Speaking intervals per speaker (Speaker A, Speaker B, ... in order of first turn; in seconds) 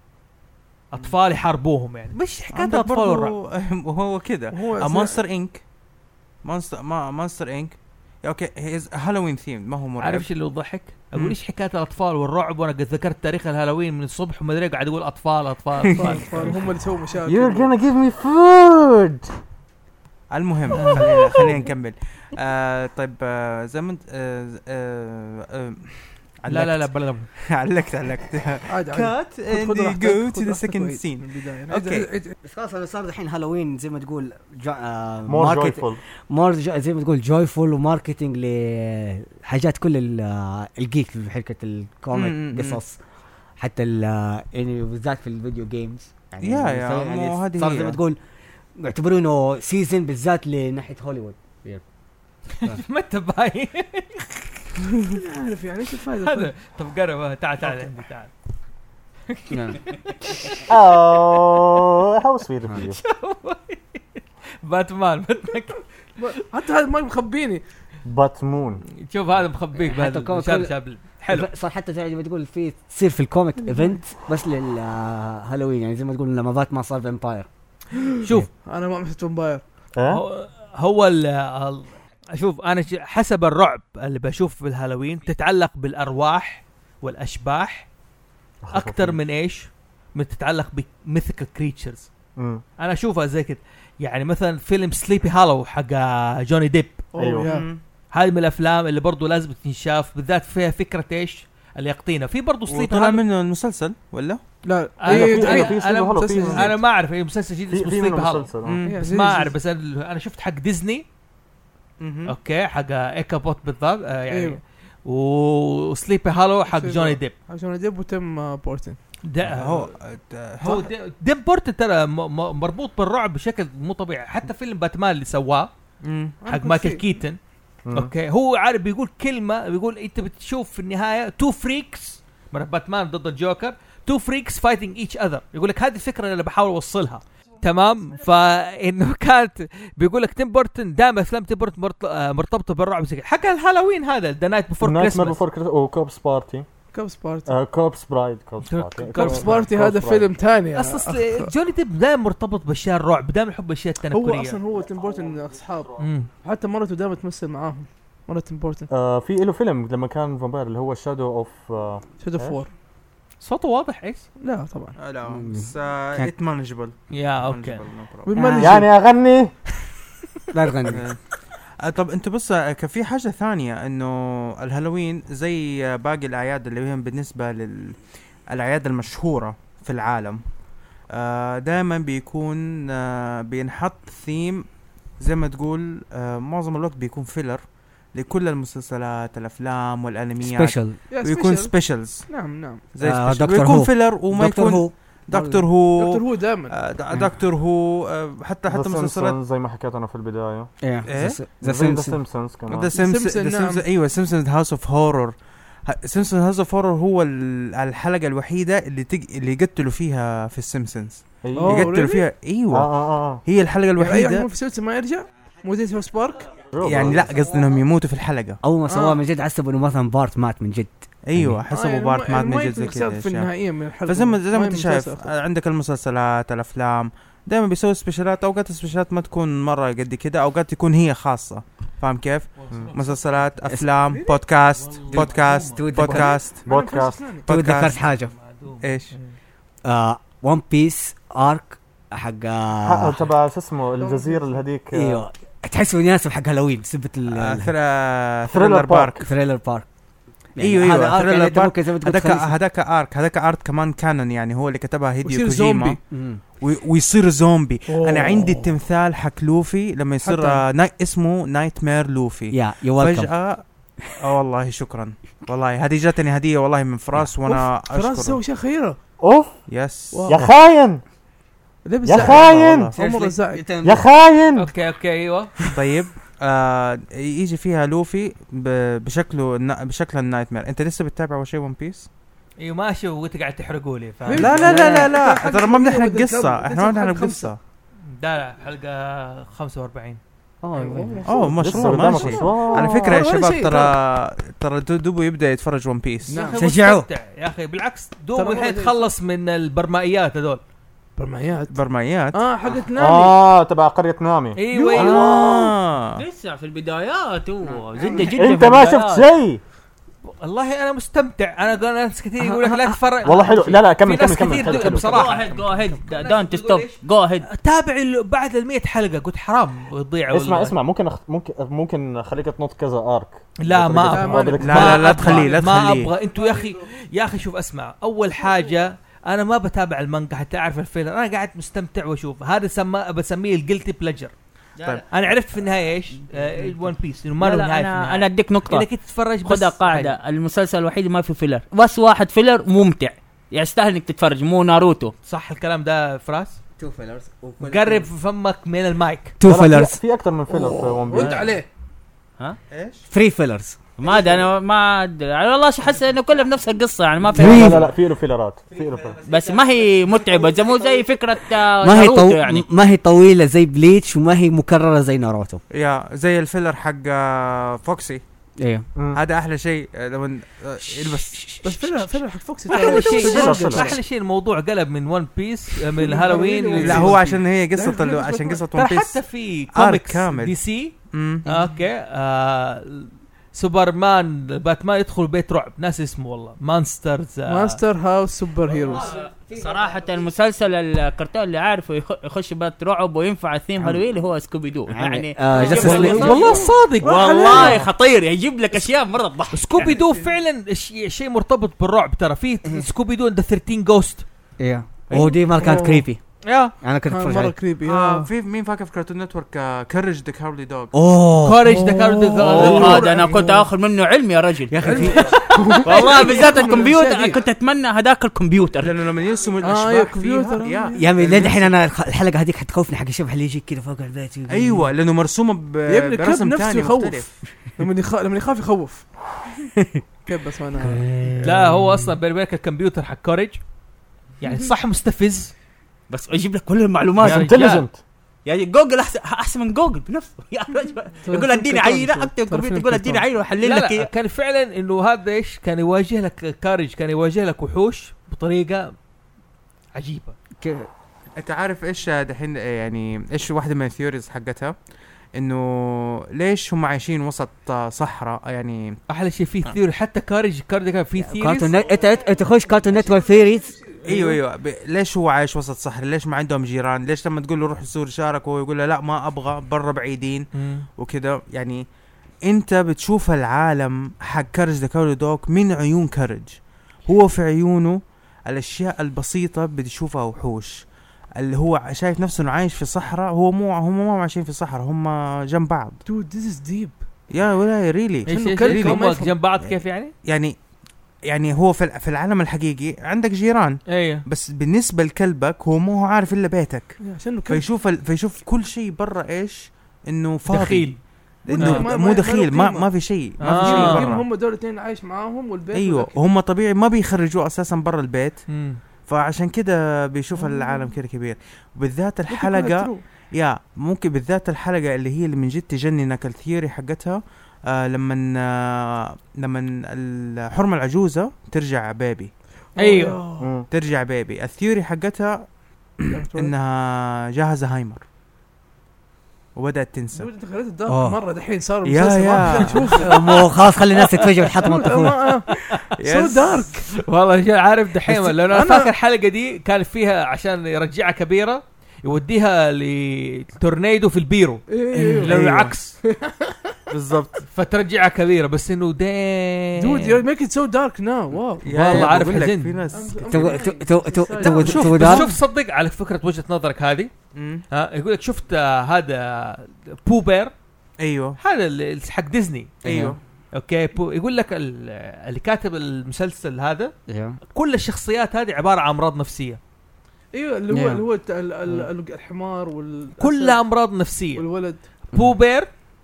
Speaker A: 0.9-3.4, 10.0-16.6, 20.7-21.3, 26.5-27.3, 52.5-54.4, 56.1-58.3, 59.3-60.6, 62.9-66.4, 69.0-71.5, 78.2-78.5, 80.1-87.9, 88.7-92.1, 92.8-97.1, 98.1-103.2, 105.0-111.0, 112.2-117.3, 119.2-119.9, 120.6-125.7, 126.5-127.4, 127.9-145.4, 148.6-149.6, 150.7-154.6, 156.0-156.3, 163.4-164.3, 167.1-167.8, 232.6-233.4, 234.8-235.8, 238.2-239.4, 274.6-275.6, 282.6-285.1, 288.1-290.2, 296.3-300.6, 304.6-305.4, 308.1-308.5, 310.2-320.8, 323.6-334.3, 335.1-340.1, 345.2-346.6, 347.6-349.4, 351.1-351.5, 372.7-377.3, 378.7-387.8, 395.6-397.8, 399.5-404.2, 406.4-406.8, 411.4-413.2, 415.9-416.6, 431.4-433.6, 434.4-435.5, 437.2-437.8, 443.6-448.9, 449.9-450.4, 459.1-461.7, 464.1-464.3, 470.5-470.9, 488.3-490.1, 493.9-494.2, 500.5-501.0, 501.5-501.9, 503.4-504.1, 508.5-508.8, 522.8-523.2, 535.5-535.8, 537.0-546.0, 547.5-550.2, 551.6-552.8, 554.4-557.1, 557.7-560.5, 561.4-562.8, 563.5-566.9, 567.5-569.6, 573.2-574.5, 575.1-575.7
Speaker B: 2.5-5.6, 6.4-10.3, 15.9-16.6, 20.3-26.9, 27.5-32.1, 42.1-42.8, 46.4-48.0, 97.4-97.8, 102.7-104.4, 108.6-109.0, 112.0-112.3, 119.4-120.9, 126.0-126.4, 165.0-168.5, 170.9-171.2, 171.8-180.4, 181.1-184.7, 185.2-192.3, 192.9-199.4, 201.1-201.4, 202.7-205.3, 205.8-214.4, 216.8-218.6, 221.2-223.5, 224.0-236.6, 237.5-238.0, 238.8-239.1, 247.3-249.2, 250.6-256.0, 256.6-268.4, 269.7-270.3, 272.1-273.0, 275.7-282.1, 284.3-287.6, 291.2-296.5, 301.7-302.4, 305.0-306.2, 324.6-326.1, 352.7-353.1, 365.7-368.2, 369.1-371.5, 376.8-379.2, 379.7-380.6, 381.1-381.5, 407.8-410.9, 412.4-413.3, 418.8-421.7, 424.5-427.4, 451.4-454.7, 455.4-459.0, 464.1-471.8, 472.4-480.9, 481.4-486.0, 487.3-489.1, 490.2-490.6, 491.3-504.2, 505.7-508.5, 509.0-522.3, 523.7-525.5, 526.0-528.0, 529.5-530.3, 531.8-533.0, 536.0-536.8, 545.2-545.8, 546.9-547.4, 551.6-553.5, 557.3-557.6, 561.0-561.4, 562.8-563.2
Speaker C: 4.5-5.2, 15.9-17.7, 28.7-32.3, 55.0-56.5, 66.2-67.6, 73.6-74.0, 77.9-79.6, 97.1-97.7, 104.6-106.7, 108.8-109.5, 114.3-114.6, 116.7-119.0, 126.4-127.1, 146.9-147.5, 149.1-151.5, 154.1-158.9, 162.2-162.7, 164.4-165.0, 168.2-168.9, 191.1-191.7, 192.3-192.9, 195.9-196.8, 202.9-203.8, 211.6-212.3, 214.0-216.5, 218.9-219.2, 221.7-225.3, 236.6-237.5, 244.0-244.6, 255.2-256.0, 257.9-258.7, 260.2-260.6, 267.4-269.0, 270.1-270.5, 271.8-273.6, 284.2-287.5, 291.9-293.9, 296.3-296.6, 298.3-299.1, 301.2-301.7, 302.3-303.4, 304.7-305.6, 324.1-325.7, 350.5-351.7, 371.6-374.0, 375.9-378.6, 387.5-389.1, 395.9-396.4, 397.0-397.9, 405.6-406.0, 407.1-408.3, 411.8-413.4, 414.8-417.4, 419.6-421.0, 425.9-429.1, 430.2-431.0, 441.2-443.2, 486.1-486.9, 488.3-489.3, 497.0-497.6, 501.5-506.1, 510.3-510.9, 512.3-513.0, 522.8-523.5, 526.1-526.5, 530.1-533.5, 534.6-536.9, 538.1-538.9, 544.7-545.3, 546.0-546.8, 549.8-552.1, 552.9-555.2, 570.3-573.6, 574.4-574.9
Speaker D: 17.2-19.2, 35.3-36.0, 60.7-63.0, 68.0-68.8, 80.0-80.2, 88.6-89.2, 92.4-92.6, 97.2-97.5, 105.1-106.8, 107.7-108.8, 127.8-128.1, 144.8-146.7, 147.5-150.3, 154.7-156.1, 158.9-162.6, 168.6-169.5, 198.7-202.9, 211.4-211.9, 212.7-213.4, 216.7-217.3, 236.1-237.4, 242.8-245.2, 248.4-249.2, 269.2-269.6, 270.3-271.0, 272.0-272.9, 273.8-274.7, 291.2-293.0, 302.9-305.2, 308.3-309.6, 313.2-315.2, 320.3-325.2, 349.4-351.5, 357.3-359.2, 368.9-369.2, 373.1-374.0, 437.2-438.0, 523.4-523.7
Speaker E: 32.4-43.0, 43.6-48.2, 48.8-51.8, 59.5-59.8, 69.8-70.7, 71.3-77.5, 165.2-166.3, 168.3-168.7, 170.5-171.1, 190.4-191.0, 193.0-195.7, 200.8-202.2, 218.6-221.6, 235.7-236.5, 237.5-238.3, 239.8-243.2, 244.9-247.7, 249.2-249.8, 250.6-252.5, 256.1-256.4, 262.5-263.3, 272.9-274.0, 290.6-292.3, 296.6-297.1, 307.7-308.2, 312.4-313.0, 346.8-348.1, 349.4-350.0, 353.1-353.8, 357.3-357.9, 361.8-365.6, 368.6-368.9, 388.8-389.5, 393.8-394.0, 394.9-396.8, 404.6-406.2, 406.8-407.7, 410.9-411.9, 414.7-415.5, 420.9-424.9, 430.7-432.1, 450.6-450.9, 461.2-463.8, 530.9-531.2, 533.0-535.4, 544.9-545.3, 551.9-552.2, 553.3-555.3, 562.8-563.2, 567.1-567.4, 570.7-571.0
Speaker F: 306.1-309.2, 314.6-317.5, 334.8-335.0, 337.4-338.9, 339.4-345.1, 354.0-357.8, 359.2-362.6, 388.9-400.0, 412.4-415.1, 415.8-418.9, 436.1-437.7, 438.4-444.1